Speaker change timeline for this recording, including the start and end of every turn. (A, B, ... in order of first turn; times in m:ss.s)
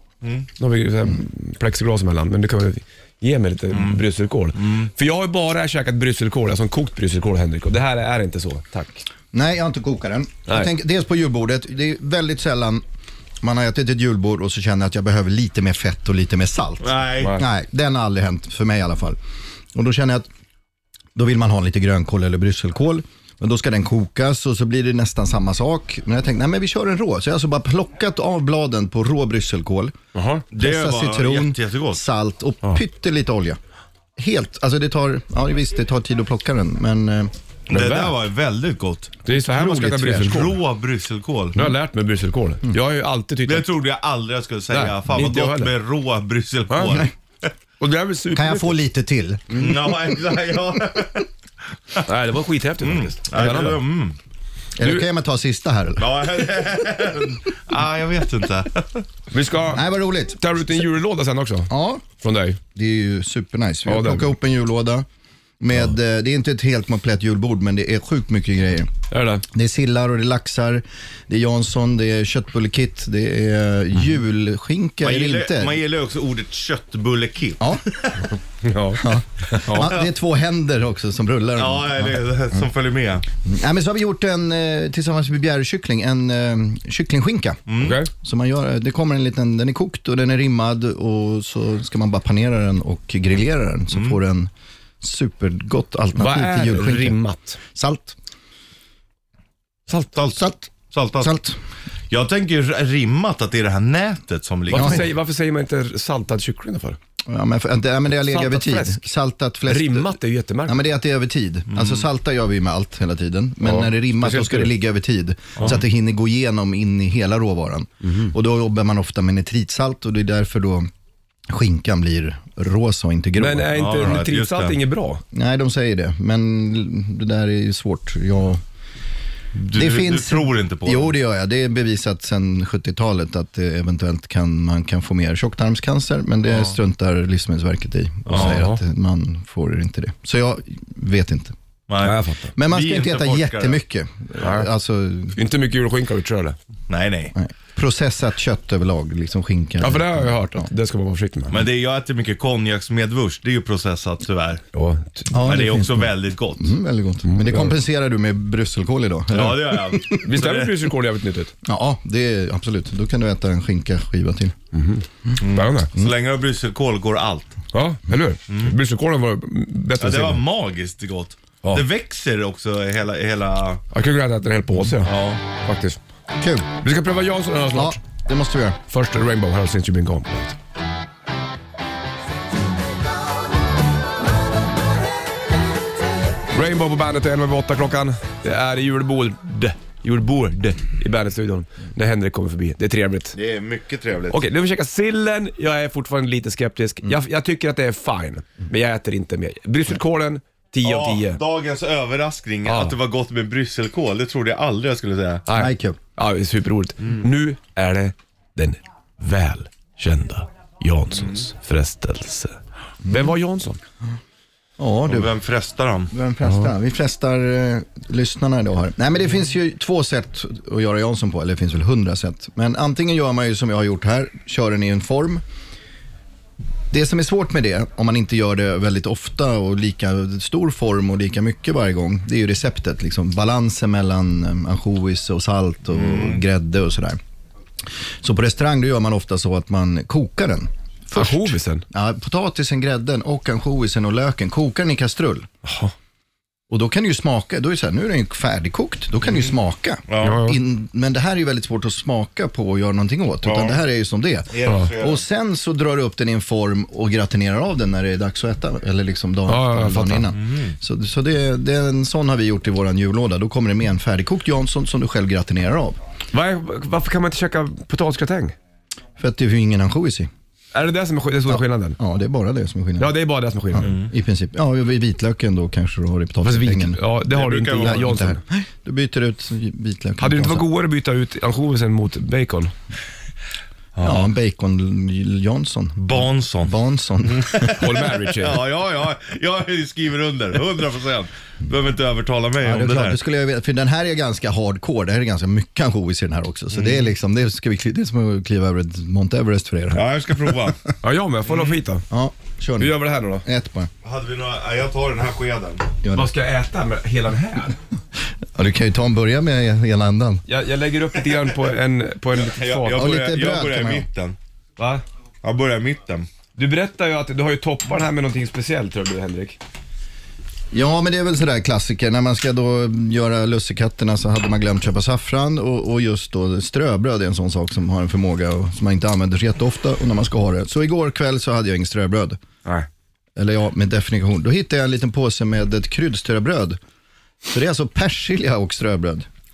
0:00.2-0:00.5 A
0:00.6-0:09.0 B
0:03.7-0:04.0 A
0:04.6-0:04.9 A
0:09.3-0:12.8 C
0:13.4-0:19.2 C
0:16.8-0:17.4 A
0:19.7-0:20.3 C
0:21.2-0:30.0 C
0:30.1-0:30.5 B
0:30.5-0:32.0 A
0:30.6-0:33.6 C
0:34.2-0:37.3 C
0:37.7-0:41.7 A
0:37.7-0:38.2 B
0:39.2-0:40.6 B
0:41.6-0:43.7 B
0:43.5-0:47.1 A
0:44.7-0:45.7 B
0:46.7-0:47.0 B
0:47.8-0:48.8 B
0:48.3-0:50.2 C
0:49.6-0:51.3 A
0:52.0-0:53.8 B
0:52.8-0:54.2 A
0:54.8-0:56.8 C
0:56.0-0:59.0 A
0:59.3-0:59.9 B
0:59.7-1:00.6 C
1:00.4-1:02.6 B
1:01.7-1:02.0 C
1:02.8-1:05.1 C
1:03.9-1:04.3 B
1:05.6-1:08.9 C
1:09.1-1:09.4 B
1:09.5-1:15.8 C
1:15.0-1:18.3 A
1:17.6-1:17.8 C
1:18.6-1:19.9 B
1:19.0-1:22.6 C
1:21.6-1:23.3 A
1:23.4-1:34.5 C
1:27.7-1:28.0 A
1:27.8-1:28.1 B
1:35.0-1:38.2 C
1:36.2-1:37.6 B
1:40.2-1:41.3 A
1:40.4-1:41.6 C
1:42.1-1:45.1 A
1:44.7-1:47.0 B
1:44.7-1:45.0 C
1:47.3-2:00.9 C
1:48.1-1:49.1 B
1:49.7-1:50.8 B
1:51.7-1:52.0 A
1:53.6-1:54.7 B
1:58.0-1:58.3 B
2:01.5-2:03.8 C
2:03.4-2:05.2 B
2:03.8-2:04.8 A
2:05.3-2:08.6 C
2:09.6-2:11.1 A
2:09.7-2:21.5 C
2:16.5-2:16.7 A
2:18.3-2:18.8 B
2:18.3-2:18.6 A
2:21.9-2:23.8 A
2:22.0-2:22.5 B
2:22.6-2:25.4 C
2:24.4-2:24.7 B
2:25.4-2:26.6 B
2:26.9-2:27.3 A
2:27.4-2:30.7 C
2:29.8-2:31.6 B
2:31.5-2:34.6 A
2:34.7-2:35.5 B
2:35.3-2:40.2 C
2:35.4-2:36.7 A
2:37.3-2:37.8 B
2:39.3-2:40.9 A
2:40.2-2:41.5 B
2:41.6-2:44.6 C
2:44.7-2:45.9 B
2:45.4-2:47.6 A
2:47.7-2:50.4 B
2:48.5-2:48.8 A
2:50.0-2:53.8 A
2:53.9-2:56.0 B
2:55.0-2:55.4 A
2:56.4-2:56.7 C
2:56.8-2:58.0 B
2:57.7-2:58.8 C
2:58.9-3:00.6 B
3:06.5-3:13.4 B
3:13.3-3:14.4 A
3:14.3-3:21.4 B
3:20.8-3:25.5 A
3:22.6-3:23.0 B
3:25.5-3:33.8 B
3:25.5-3:26.0 C
3:33.1-3:33.3 C
3:34.8-3:35.3 C
3:35.1-3:36.1 A
3:36.1-3:45.4 C
3:46.9-3:57.2 C
3:55.9-3:56.4 A
3:58.2-4:05.5 C
4:01.1-4:01.8 B
4:05.6-4:05.9 B
4:06.7-4:26.0 C
4:10.1-4:10.4 A
4:10.2-4:10.6 B
4:13.4-4:13.8 A
4:14.5-4:15.2 A
4:19.5-4:20.3 B
4:20.4-4:20.8 A
4:26.3-4:28.6 B
4:29.2-4:30.3 C
4:30.7-4:32.0 B
4:31.5-4:33.1 C
4:33.0-4:33.9 B
4:33.7-4:37.0 C
4:33.8-4:34.1 A
4:36.4-4:38.4 B
4:37.3-4:38.1 A
4:37.8-4:40.7 C
4:40.2-4:42.7 B
4:44.0-4:44.3 A
4:44.0-4:47.8 C
4:46.0-4:46.8 A
4:47.3-4:53.2 A
4:47.8-4:48.6 B
4:52.6-5:00.8 C
4:56.7-4:57.1 A
4:59.9-5:00.8 A
5:01.0-5:02.0 B
5:02.1-5:03.9 C
5:02.8-5:03.5 B
5:04.0-5:05.9 A
5:06.0-5:06.3 C
5:06.1-5:07.8 B
5:08.6-5:10.4 C
5:10.5-5:13.1 B
5:12.3-5:14.4 A
5:12.9-5:14.1 C
5:14.8-5:15.0 B
5:15.4-5:16.3 A
5:16.6-5:19.6 B
5:20.7-5:32.4 C
5:33.4-5:36.8 C
5:37.5-5:39.3 C